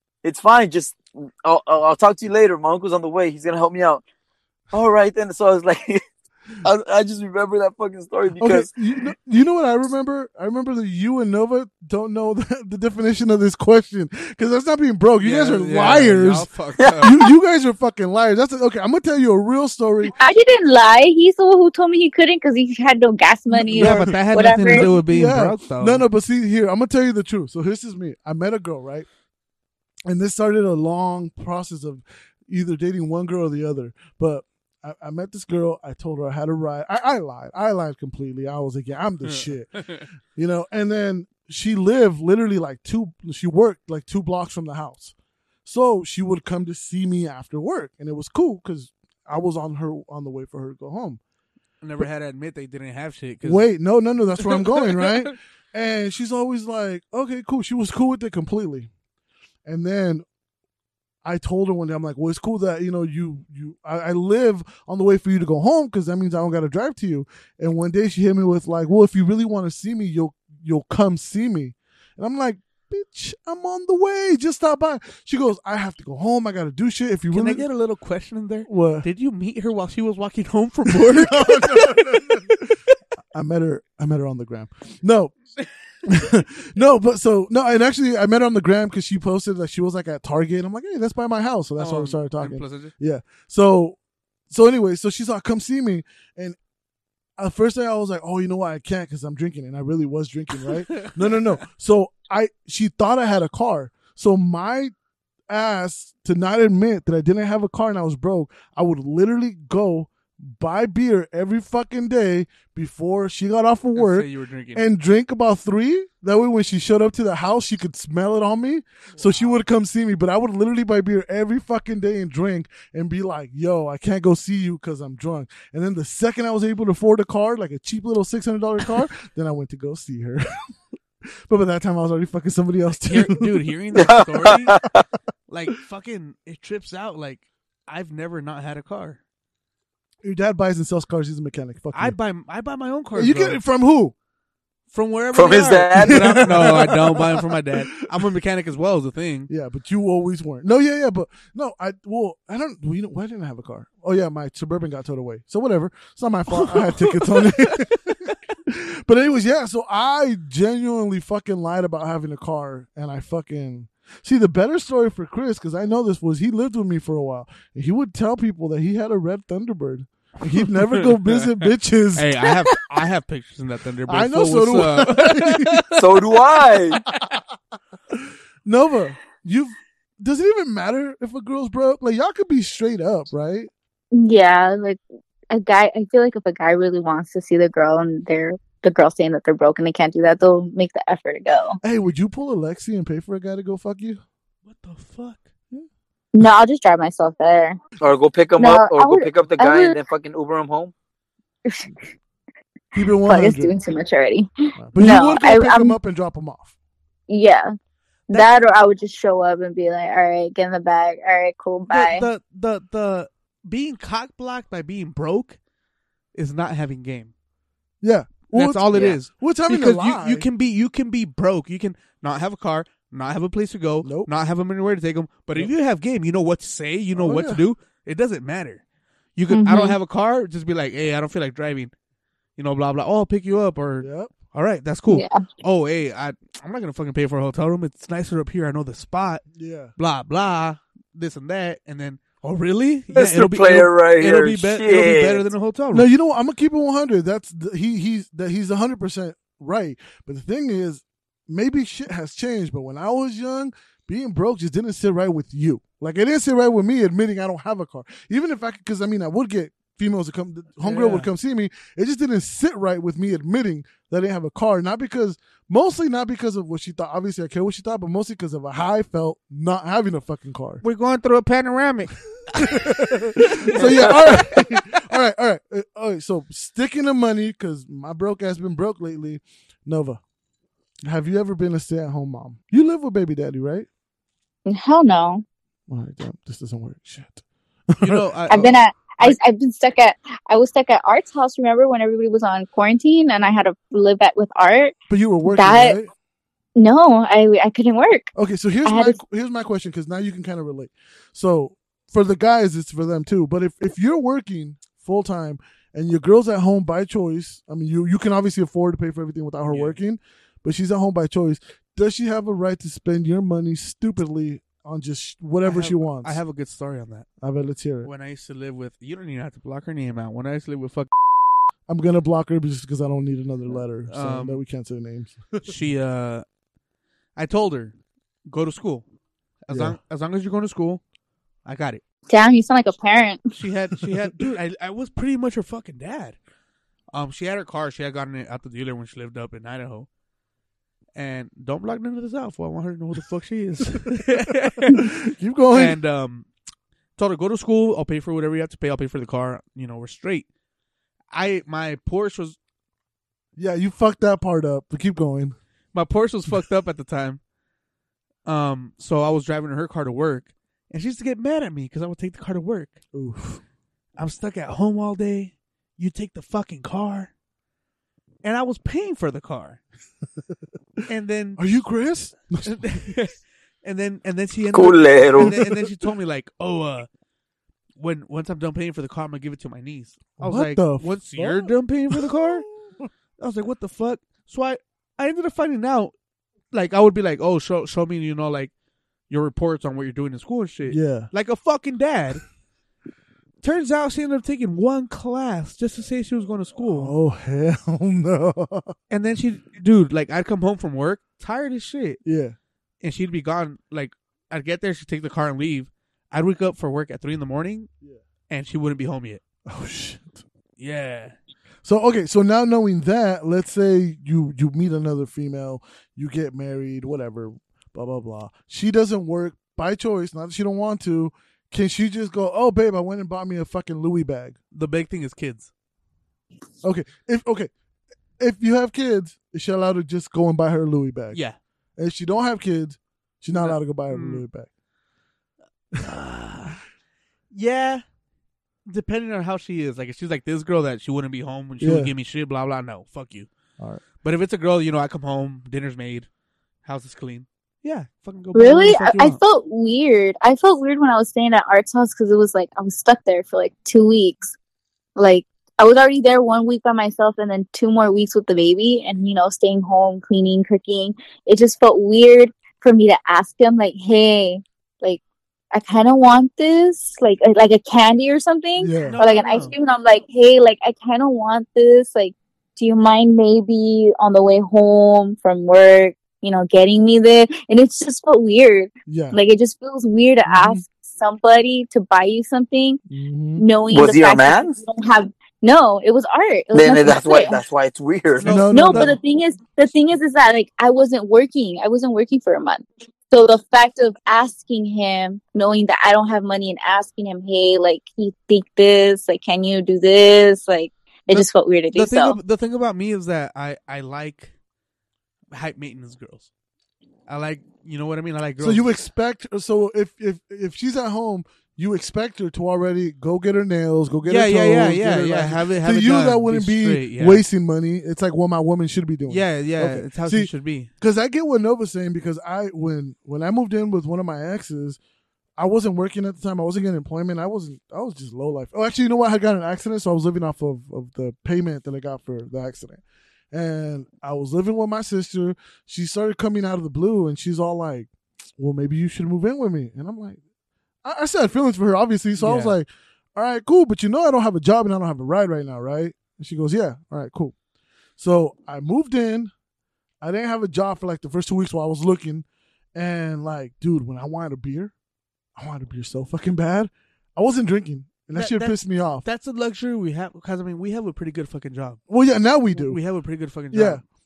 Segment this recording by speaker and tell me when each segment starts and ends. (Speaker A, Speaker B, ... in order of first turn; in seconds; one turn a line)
Speaker A: 0.2-4.0
Speaker A: 4.7-6.0
Speaker A: 6.6-8.7
Speaker B: 8.4-16.5
Speaker C: 15.2-17.2
Speaker A: 16.8-17.1
Speaker B: 17.0-20.1
Speaker D: 20.1-24.9
Speaker B: 23.5-29.1
Speaker C: 23.7-26.1
Speaker B: 30.1-39.8
Speaker C: 39.2-40.0
Speaker B: 40.3-45.1
Speaker B: 45.6-51.2
Speaker C: 51.8-53.7
Speaker B: 53.4-58.9
Speaker C: 54.5-55.3
Speaker B: 59.7-60.2
Speaker B: 61.2-77.6
Speaker C: 77.3-82.5
Speaker B: 78.7-79.1
Speaker B: 81.0-82.6
Speaker B: 83.3-85.3
Speaker B: 86.0-94.0
Speaker C: 91.8-92.9
Speaker B: 94.5-96.5
Speaker B: 97.4-104.9
Speaker B: 105.5-130.4
Speaker C: 114.0-114.8
Speaker C: 119.1-119.6
Speaker B: 131.5-133.5
Speaker C: 133.0-134.8
Speaker A: 133.9-135.0
Speaker C: 135.5-139.2
Speaker B: 140.2-142.2
Speaker C: 141.9-143.6
Speaker B: 143.1-144.1
Speaker C: 144.9-149.5
Speaker A: 145.3-146.6
Speaker B: 146.0-147.9
Speaker B: 149.5-172.3
Speaker C: 156.5-158.4
Speaker C: 170.5-176.1
Speaker B: 174.1-175.8
Speaker A: 176.0-177.0
Speaker B: 177.1-177.4
Speaker B: 178.1-183.7
Speaker D: 184.1-191.8
Speaker B: 191.8-194.2
Speaker C: 194.7-195.4
Speaker D: 196.3-197.8
Speaker A: 198.0-200.9
Speaker D: 198.6-199.9
Speaker B: 202.9-203.7
Speaker D: 203.2-206.0
Speaker B: 204.8-206.7
Speaker D: 207.3-207.7
Speaker D: 208.3-212.3
Speaker C: 211.9-215.6
Speaker C: 216.3-217.3
Speaker B: 218.0-220.4
Speaker C: 218.5-228.8
Speaker B: 224.0-224.3
Speaker B: 227.1-227.6
Speaker C: 229.4-231.9
Speaker D: 229.5-230.0
Speaker C: 232.6-239.4
Speaker B: 234.0-234.3
Speaker D: 235.1-235.4
Speaker B: 239.6-239.9
Speaker C: 240.0-246.1
Speaker A: 243.1-245.5
Speaker B: 245.9-270.8
Speaker C: 260.8-261.3
Speaker C: 270.8-274.6
Speaker B: 272.6-280.2
Speaker B: 281.1-283.9
Speaker D: 284.7-285.4
Speaker B: 285.9-288.3
Speaker C: 288.0-289.4
Speaker D: 288.5-296.0
Speaker B: 295.1-296.1
Speaker D: 296.8-298.3
Speaker B: 298.3-316.4
Speaker D: 298.8-299.2
Speaker C: 309.7-310.0
Speaker C: 315.6-317.3
Speaker B: 317.4-318.1
Speaker C: 318.0-321.1
Speaker B: 321.9-325.7
Speaker C: 324.1-324.6
Speaker C: 325.6-326.4
Speaker C: 327.4-327.9
Speaker C: 328.5-329.0
Speaker C: 329.7-331.0
Speaker B: 329.7-330.0
Speaker C: 331.6-332.0
Speaker D: 332.3-333.6
Speaker C: 333.6-336.4
Speaker C: 337.1-340.1
Speaker C: 341.2-345.0
Speaker B: 344.9-346.0
Speaker C: 345.7-346.5
Speaker C: 347.2-350.4
Speaker C: 351.3-352.6
Speaker B: 353.6-355.6
Speaker C: 355.9-357.4
Speaker C: 358.4-363.0
Speaker B: 363.1-363.6
Speaker C: 364.2-367.3
Speaker C: 368.4-369.8
Speaker C: 371.1-371.6
Speaker B: 371.6-372.8
Speaker C: 372.6-377.1
Speaker A: 374.7-375.6
Speaker B: 375.4-375.8
Speaker C: 378.0-382.7
Speaker B: 380.4-383.1
Speaker C: 383.4-386.1
Speaker C: 386.7-388.7
Speaker C: 389.3-392.4
Speaker B: 390.9-391.3
Speaker C: 393.6-397.1
Speaker B: 396.9-398.9
Speaker C: 399.1-402.2
Speaker B: 402.2-402.6
Speaker C: 403.0-407.9
Speaker C: 408.5-409.4
Speaker B: 409.7-410.4
Speaker C: 410.8-411.3
Speaker B: 411.8-424.6
Speaker C: 424.7-425.7
Speaker B: 426.8-427.7
Speaker B: 428.4-431.4
Speaker B: 432.0-434.7
Speaker C: 433.5-434.4
Speaker C: 436.0-436.8
Speaker C: 437.5-438.0
Speaker C: 438.9-443.5
Speaker B: 441.8-442.1
Speaker C: 444.2-446.3
Speaker C: 446.8-449.4
Speaker D: 448.6-454.5
Speaker D: 455.2-465.2
Speaker D: 465.7-483.0
Speaker B: 468.8-469.2
Speaker C: 469.0-469.7
Speaker B: 479.1-479.4
Speaker B: 480.5-480.8
Speaker B: 483.1-483.7
Speaker D: 483.6-487.6
Speaker A: 483.9-484.8
Speaker A: 486.7-488.6
Speaker C: 488.4-489.2
Speaker B: 488.4-489.2
Speaker D: 488.7-502.4
Speaker C: 501.9-504.5
Speaker C: 505.5-506.5
Speaker C: 507.3-508.8
Speaker B: 508.6-525.0
Speaker C: 514.3-517.4
Speaker C: 519.3-520.9
Speaker B: 525.6-540.4
Speaker B: 541.0-547.5
Speaker C: 542.4-542.7
Speaker B: 548.2-549.5
Speaker B: 550.2-554.9
Speaker B: 555.6-559.3
Speaker C: 558.3-562.0
Speaker B: 562.1-563.0
Speaker C: 562.7-564.0
Speaker B: 563.7-564.0